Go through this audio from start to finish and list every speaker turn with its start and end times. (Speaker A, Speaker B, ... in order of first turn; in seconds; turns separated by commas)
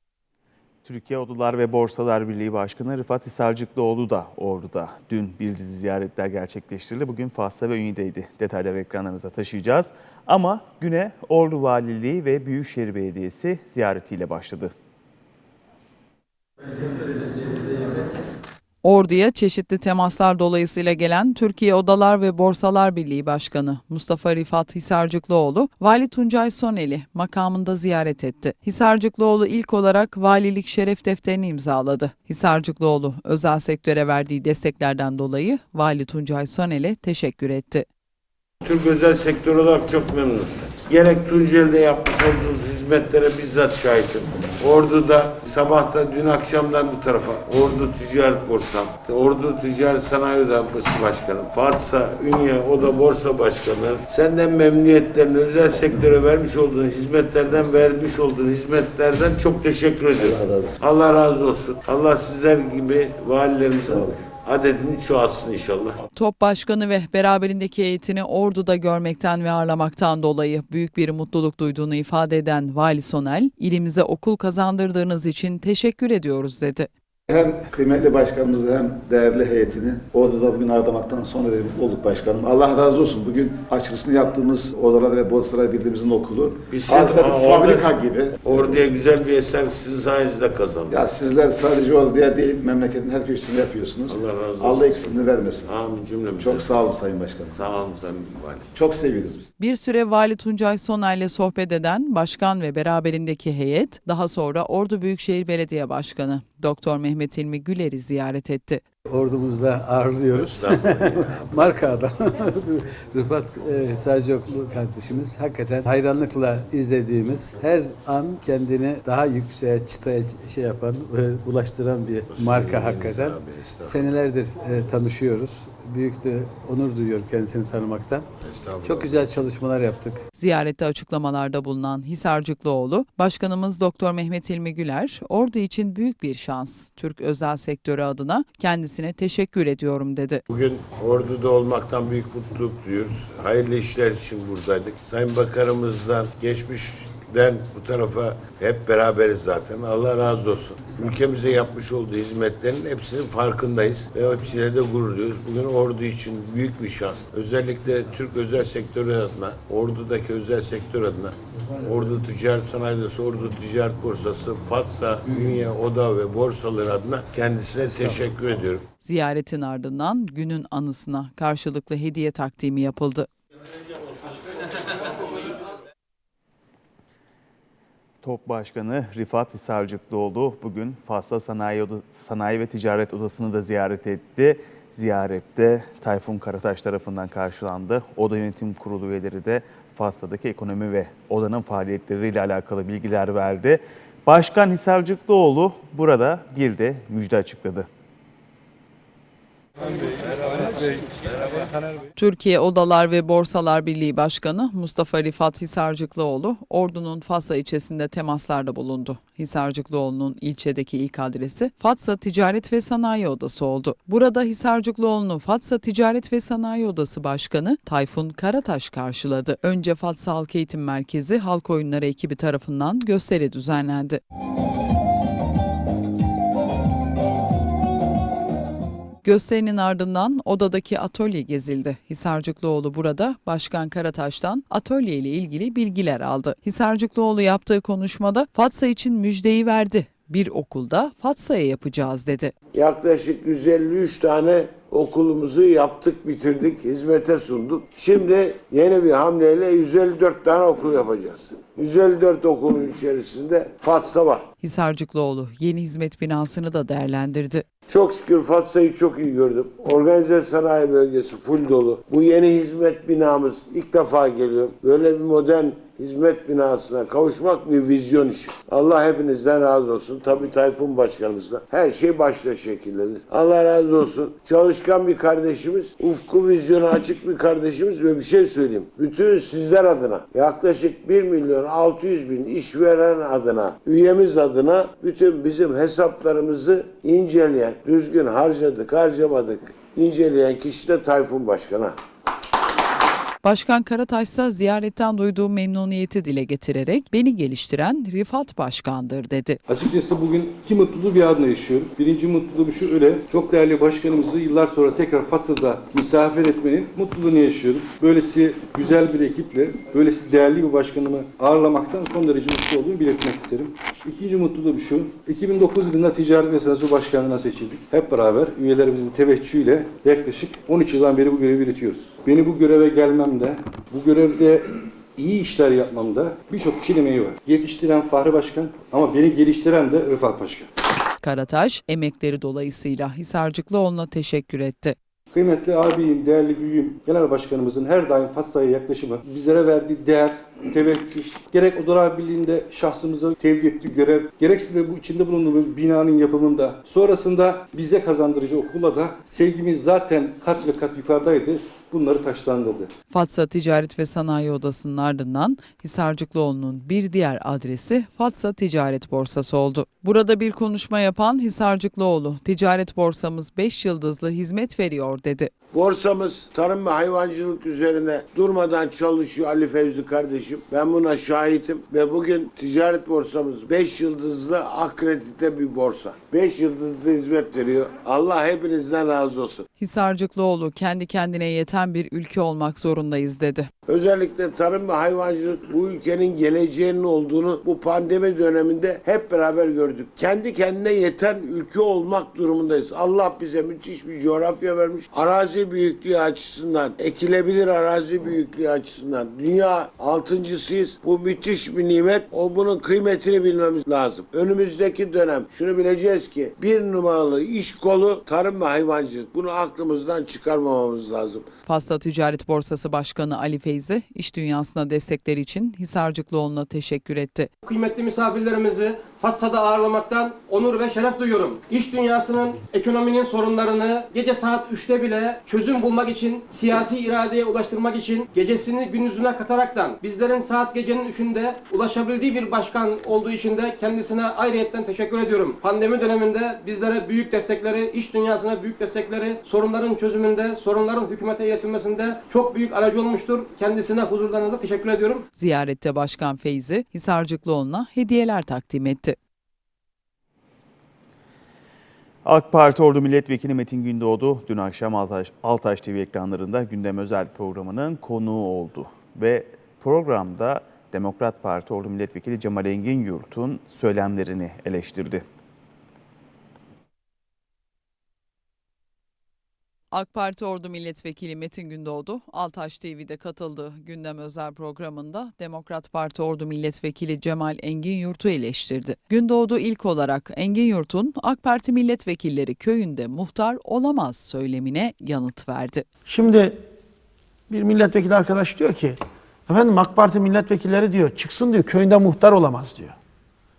Speaker A: 0.8-14.7, Speaker B: 18.8-37.9, Speaker C: 38.6-66.0, Speaker D: 60.2-60.8, Speaker D: 63.9-64.2, Speaker B: 66.1-76.9, Speaker D: 77.3-88.4, Speaker C: 86.7-91.1, Speaker D: 90.9-95.7, Speaker C: 94.0-96.8, Speaker D: 96.4-97.7, Speaker C: 97.5-98.7, Speaker D: 98.7-99.5, Speaker B: 99.6-108.8, Speaker E: 109.1-128.3, Speaker C: 110.3-111.7, Speaker C: 122.3-124.1, Speaker C: 128.4-129.4, Speaker E: 128.8-130.2, Speaker B: 130.4-140.4, Speaker C: 140.5-168.8, Speaker B: 169.0-173.3, Speaker A: 178.2-197.9, Speaker B: 202.2-224.2, Speaker B: 229.2-242.5, Speaker C: 242.7-254.5, Speaker B: 254.6-257.6, Speaker C: 257.9-292.0, Speaker B: 293.4-299.6, Speaker F: 299.7-330.7, Speaker B: 331.2-334.9, Speaker F: 335.3-352.9, Speaker B: 353.1-365.5, Speaker C: 365.7-379.7, Speaker B: 379.8-383.7, Speaker C: 383.9-411.5, Speaker B: 411.6-417.5, Speaker G: 417.6-445.2, Speaker B: 445.4-449.1, Speaker A: 452.2-465.2, Speaker B: 469.9-485.8, Speaker H: 486.1-486.6, Speaker H: 487.5-492.9